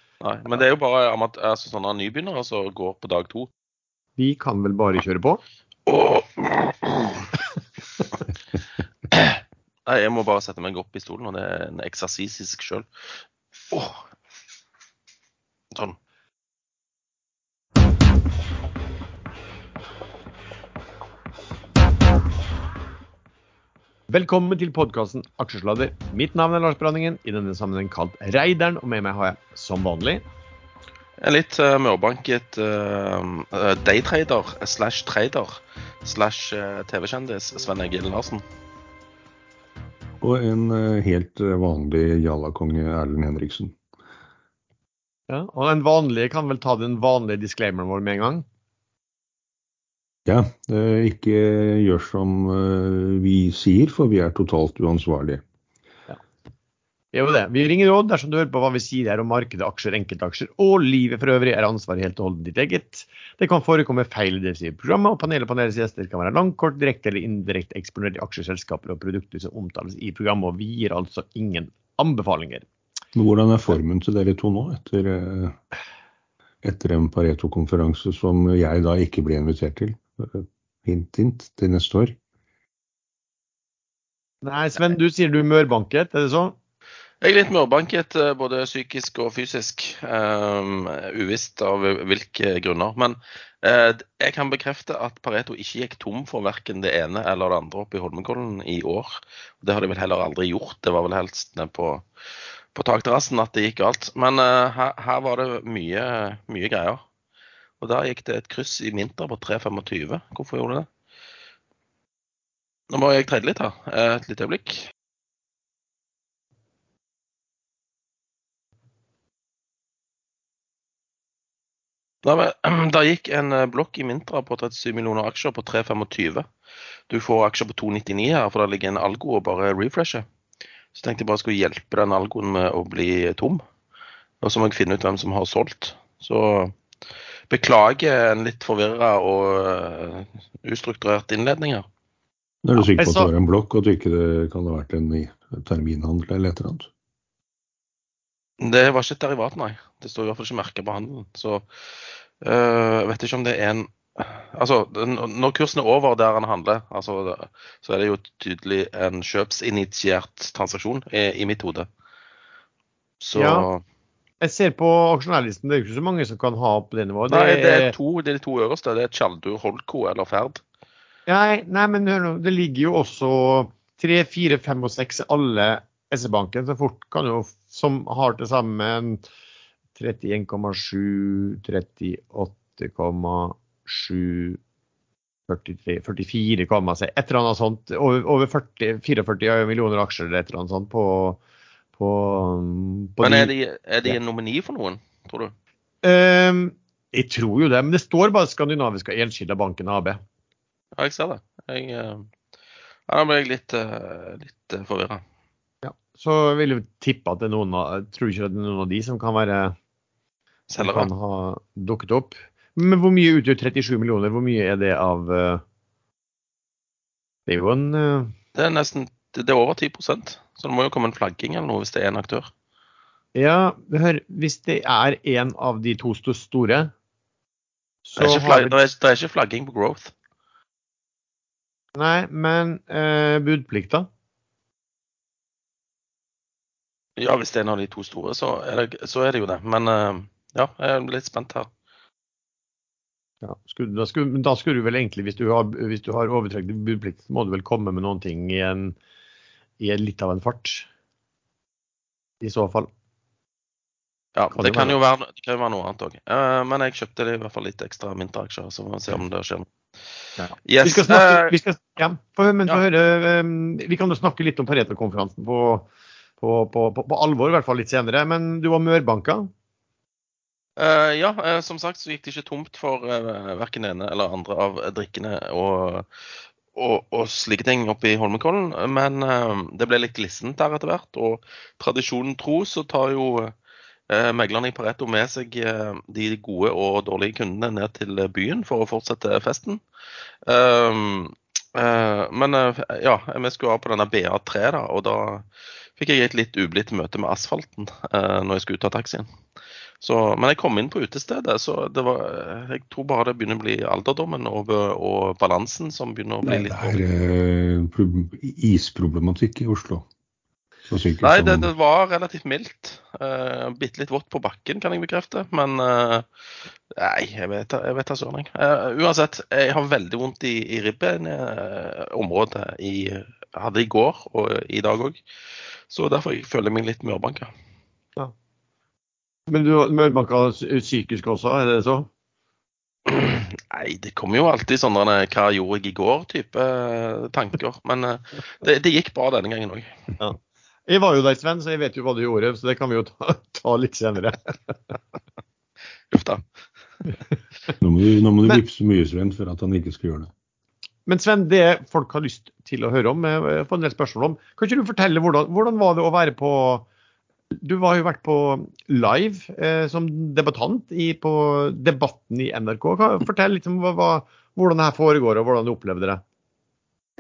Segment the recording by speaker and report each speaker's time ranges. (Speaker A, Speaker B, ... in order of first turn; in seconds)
Speaker A: 0.2-3.5, 5.9-7.3, 9.1-12.9, 13.7-14.0, 31.2-38.4, 87.2-102.0, 102.7-107.0, 107.8-110.9, 112.9-114.9, 122.2-126.5, 127.1-130.2, 130.9-133.6, 134.4-136.7, 137.5-141.8, 148.6-151.6, 152.4-161.9, 163.2-163.8, 167.3-170.6, 193.2-195.5, 201.0-202.3, 203.1-205.2, 210.7-211.1, 218.5-222.5, 228.2-230.1, 237.2-241.7, 254.3-259.7, 260.6-261.5, 270.8-276.1, 276.7-283.5, 284.1-289.8, 290.4-295.4, 296.0-299.3, 300.0-306.9, 311.2-316.2, 316.9-325.2, 325.9-327.5, 333.1-339.9, 346.1-346.4
Speaker B: 4.2-5.4, 24.1-30.2, 45.3-48.5, 57.1-72.7, 84.4-86.5, 142.8-143.3, 163.3-163.7, 164.4-167.9, 171.3-179.2, 179.9-184.6, 185.5-191.4, 192.0-193.5, 196.0-200.2, 205.8-209.8, 210.8-215.6, 217.5-218.3, 223.3-226.9, 228.0-228.8, 231.9-234.1, 243.4-248.9, 249.8-250.9, 252.4-252.9, 254.5-255.0, 260.4-265.9, 266.4-269.5, 329.5-332.1, 340.2-344.7, 351.1-356.9, 357.6-366.2
Speaker C: 40.2-43.8, 50.2-55.4, 73.1-75.6, 76.6-82.2, 142.6-146.9, 306.4-310.1, 310.9-311.7, 347.8-350.3